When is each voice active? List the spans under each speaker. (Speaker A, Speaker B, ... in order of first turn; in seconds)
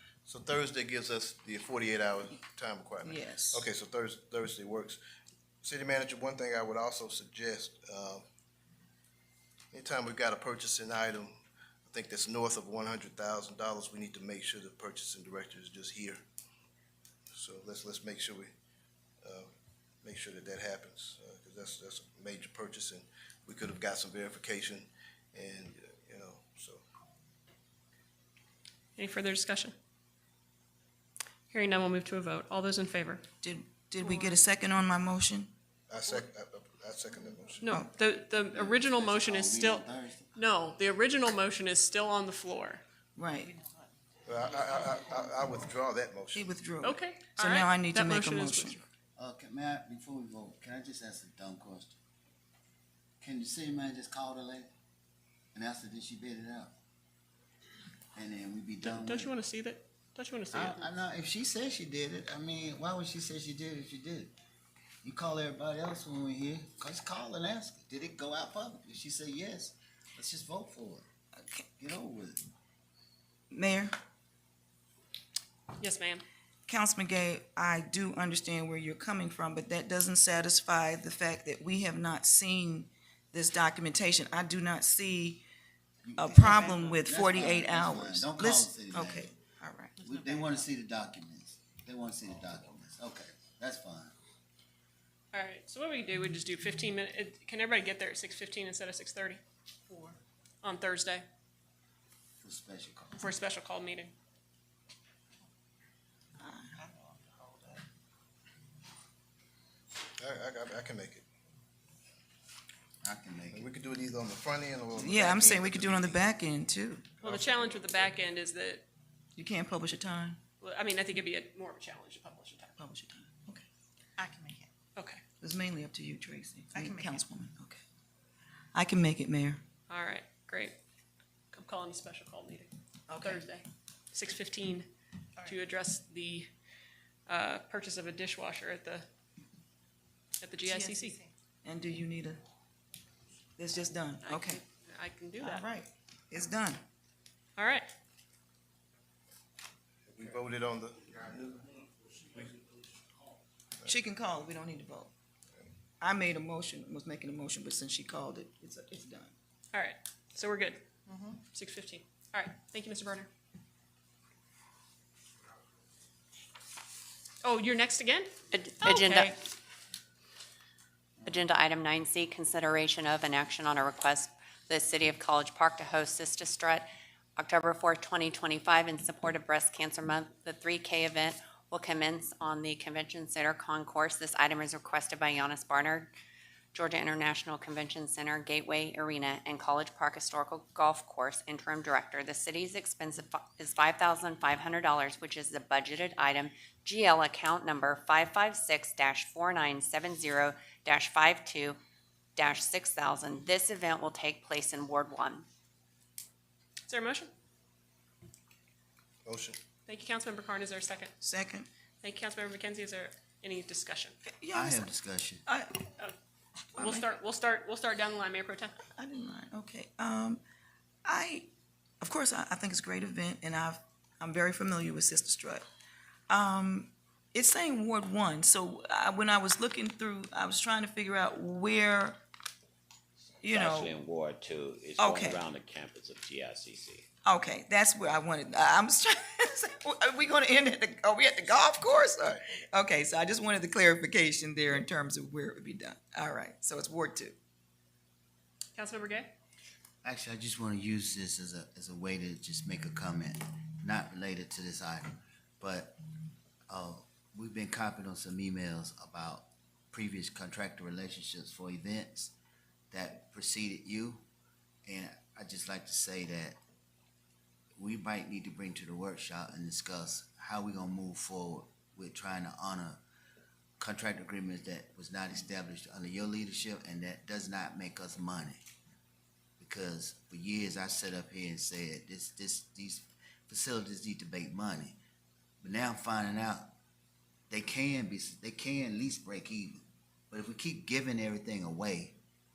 Speaker A: 0.3-5.0, 5.6-8.2, 9.7-16.2, 17.3-18.5, 19.2-19.5, 20.0-26.8, 35.9-37.7, 44.2-46.5, 110.2-111.2, 113.5-116.2, 117.2-118.1, 150.1-152.7, 209.2-209.6
Speaker B: 3.0-3.6, 33.4-35.5, 43.2-43.5, 46.3-48.8, 73.5-73.9, 76.7-85.4, 86.2-90.0, 106.4-106.7, 114.9-117.1, 119.4-120.4, 122.8-123.7, 125.4-127.8, 128.7-129.6, 133.1-133.4, 141.6-142.4, 143.6-144.6, 145.4-146.8, 153.8-155.1, 156.0-159.3, 211.2-211.7, 214.3-214.9, 215.5-215.9, 216.8-217.1, 218.9-220.4, 221.1-221.5, 222.0-225.7, 226.3-232.2, 233.4-233.9, 235.0-235.4, 237.2-247.3
Speaker C: 28.9-29.7, 31.5-33.2, 37.6-42.8, 46.8-48.8, 58.8-60.9, 75.8-76.2, 95.3-99.4, 100.6-101.2, 103.2-104.1, 117.2-118.8, 120.6-122.8, 125.0-125.2, 129.9-130.8, 131.5-134.9, 135.4-136.5, 137.3-139.1, 140.4-141.2, 144.2-145.7, 147.6-147.9, 159.7-163.3, 167.4-169.3, 206.9-207.3, 209.9-211.1, 212.0-214.2, 216.8-218.8, 248.8-249.3
Speaker D: 38.5-40.3, 49.2-52.0, 53.2-54.7, 55.5-56.7, 58.1-59.3, 60.5-64.3, 65.0-71.0, 71.8-72.5, 86.0-89.3, 90.0-94.1, 102.4-103.2, 113.0-113.7, 214.5-215.4, 250.0-256.0, 256.7-262.3, 262.9-264.2, 264.9-266.6, 267.8-273.0, 273.8-278.6, 279.6-285.0, 285.6-286.7, 287.5-292.2
Speaker E: 43.6-43.9, 44.6-45.0, 90.1-90.5, 99.9-100.2, 106.8-107.8, 124.2-124.7, 126.7-127.2, 140.7-141.3, 161.1-161.3
Speaker F: 168.5-169.4, 171.2-176.8, 177.4-186.1, 186.7-201.8, 202.3-205.4
Speaker G: 233.5-237.1